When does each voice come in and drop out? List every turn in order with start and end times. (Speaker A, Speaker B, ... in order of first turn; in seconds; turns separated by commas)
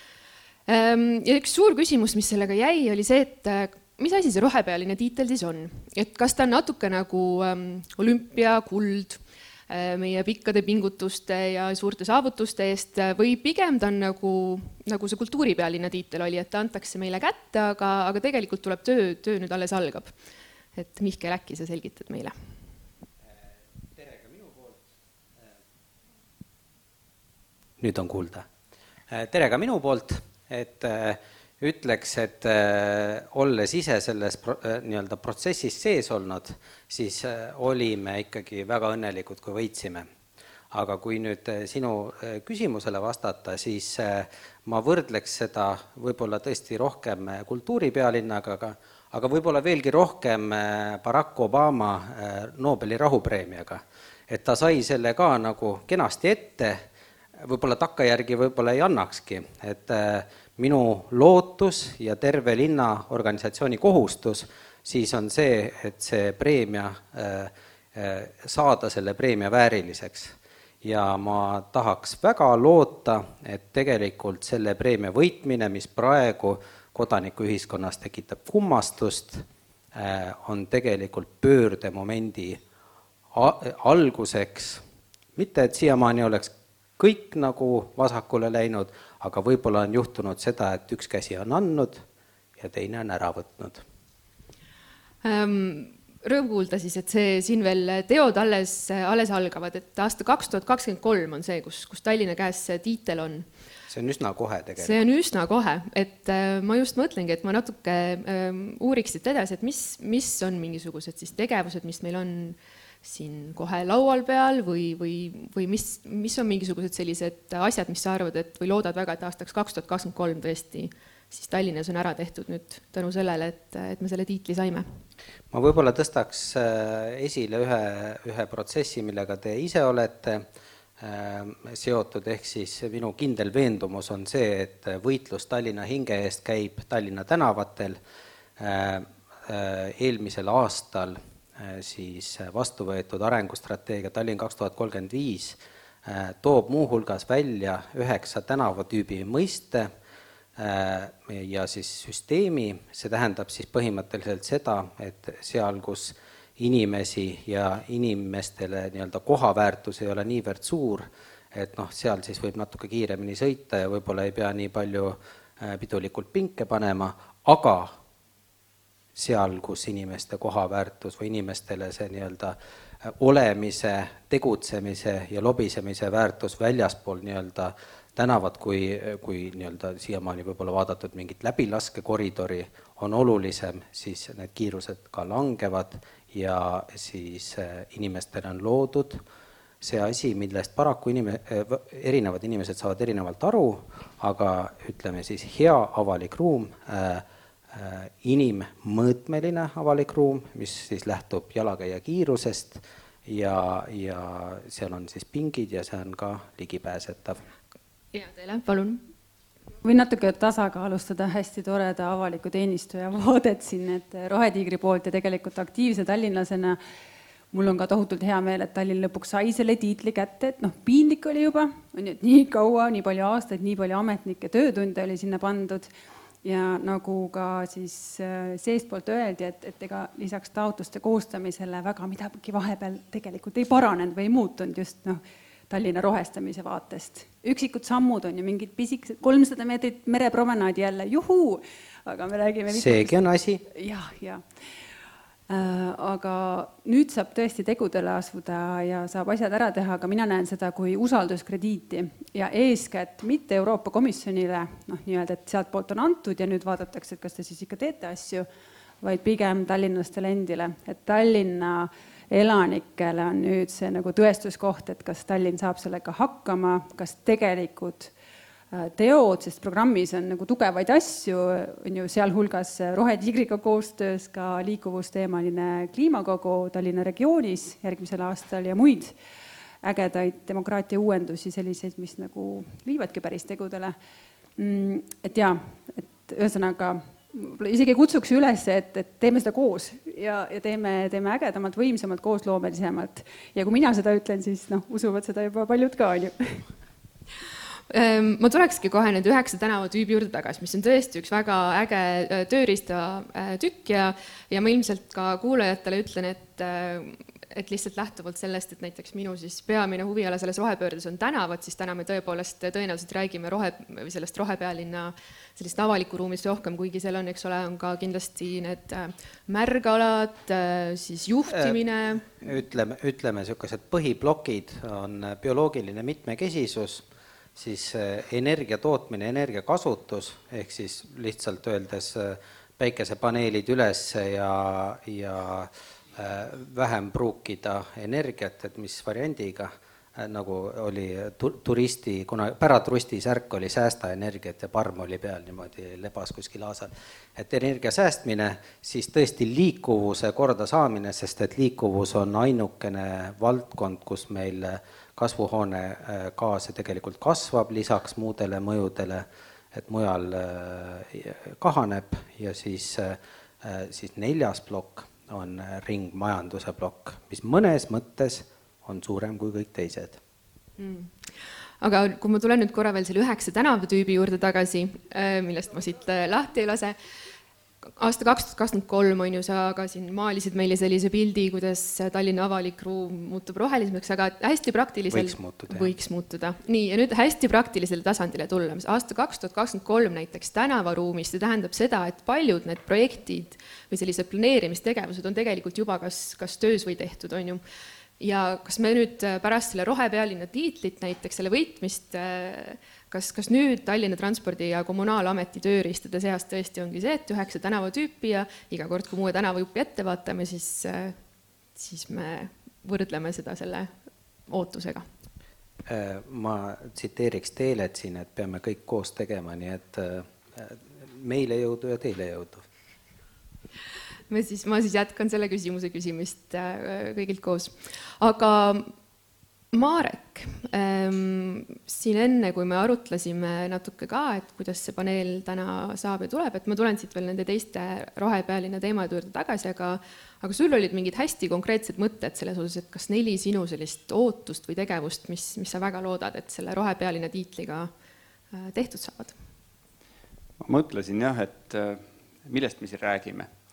Speaker A: 0.7-20.1, Speaker A: 20.8-22.3, Speaker B: 23.3-24.8, Speaker B: 27.8-28.5, Speaker B: 29.1-40.1, Speaker B: 40.7-56.8, Speaker B: 57.4-82.6, Speaker B: 83.3-84.8, Speaker B: 85.4-92.0, Speaker B: 92.6-93.8, Speaker A: 95.2-103.5, Speaker B: 103.9-105.0, Speaker A: 104.8-124.8, Speaker B: 125.5-130.5, Speaker B: 131.0-138.0, Speaker B: 138.6-149.9, Speaker B: 150.6-168.0, Speaker B: 169.2-189.2, Speaker B: 189.8-207.4, Speaker A: 208.1-209.0, Speaker C: 209.8-216.8, Speaker C: 217.5-225.9, Speaker C: 226.4-243.2, Speaker B: 242.7-243.6, Speaker C: 243.7-244.7, Speaker C: 245.5-258.5, Speaker C: 259.0-268.1, Speaker C: 268.7-279.1, Speaker C: 279.8-283.9, Speaker C: 284.6-296.7, Speaker A: 297.9-322.3, Speaker B: 321.5-370.2, Speaker A: 370.8-371.3, Speaker A: 371.8-376.9, Speaker A: 378.0-397.6, Speaker B: 385.1-385.9, Speaker A: 398.2-411.2, Speaker A: 411.8-413.9, Speaker A: 414.5-415.1, Speaker B: 415.9-422.6, Speaker A: 424.3-428.9, Speaker A: 429.7-447.9, Speaker A: 448.5-449.4, Speaker D: 450.6-453.5